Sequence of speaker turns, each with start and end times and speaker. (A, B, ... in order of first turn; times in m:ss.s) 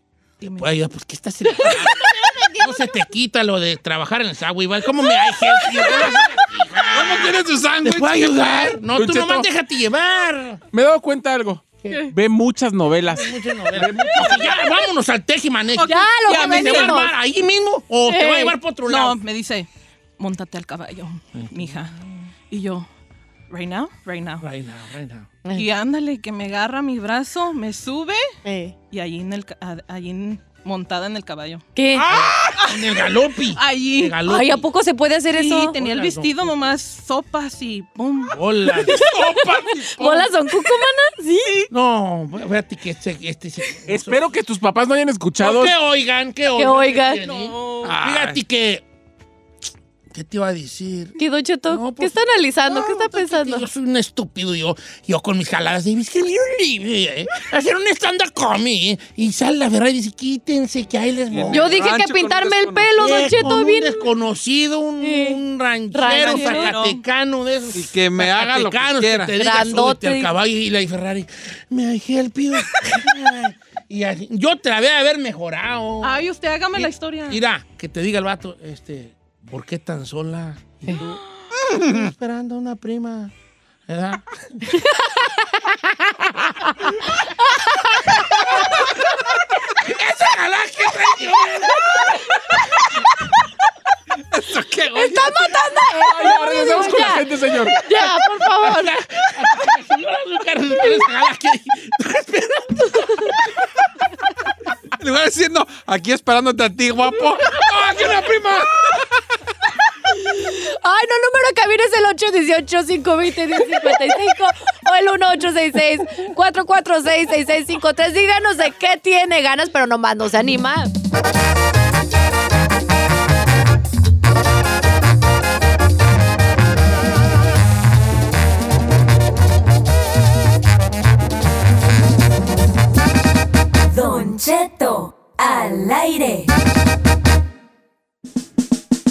0:00.4-0:00.7 A
0:00.4-0:02.0 B
0:01.6-0:02.7 C
0:01.6-0:02.3 A
0:02.6-0:10.6 B
0:05.6-0:06.2 A
0:06.7-0:08.8 D
0:08.9-0:09.4 E
0:10.7-0:14.4 E
0:13.1-0:19.2 B
0:15.8-0:17.0 A
0:15.8-0:17.1 C
0:18.0-0:18.5 C
0:18.8-0:19.7 A
0:20.2-0:22.0 A
0:21.4-0:21.9 B
0:22.5-0:22.9 A
0:23.5-0:24.5 A
0:24.4-0:25.3 B
0:25.5-0:28.2 A
0:28.4-0:28.7 C
0:28.9-0:34.2 A
0:31.7-0:32.0 C
0:32.1-0:34.7 B
0:34.2-0:35.8 C
0:35.3-0:40.2 A
0:35.7-0:36.5 B
0:38.3-0:39.1 B
0:38.8-0:41.6 C
0:39.4-0:39.6 D
0:41.7-0:44.2 B
0:43.9-0:45.7 E
0:45.4-0:48.8 B
0:46.6-0:47.2 C
0:47.2-0:47.9 A
0:47.8-0:48.4 D
0:50.1-1:01.8 B
0:51.2-0:53.7 C
1:01.3-1:03.2 D
1:01.5-1:04.1 C
1:03.0-1:21.2 B
1:05.0-1:05.4 C
1:05.9-1:06.8 C
1:06.2-1:07.0 A
1:07.7-1:09.3 D
1:09.4-1:10.3 C
1:16.0-1:17.4 A
1:21.7-1:22.0 D
1:21.7-1:23.3 B
1:23.9-1:24.8 B
1:28.0-1:28.3 C
1:29.7-1:32.4 B
1:34.3-1:35.3 D
1:34.9-1:38.9 C
1:36.0-1:37.8 E
1:37.9-1:43.3 B
1:45.0-1:49.0 D
1:47.6-1:48.4 B
1:50.1-2:00.9 C
2:13.9-2:16.5 F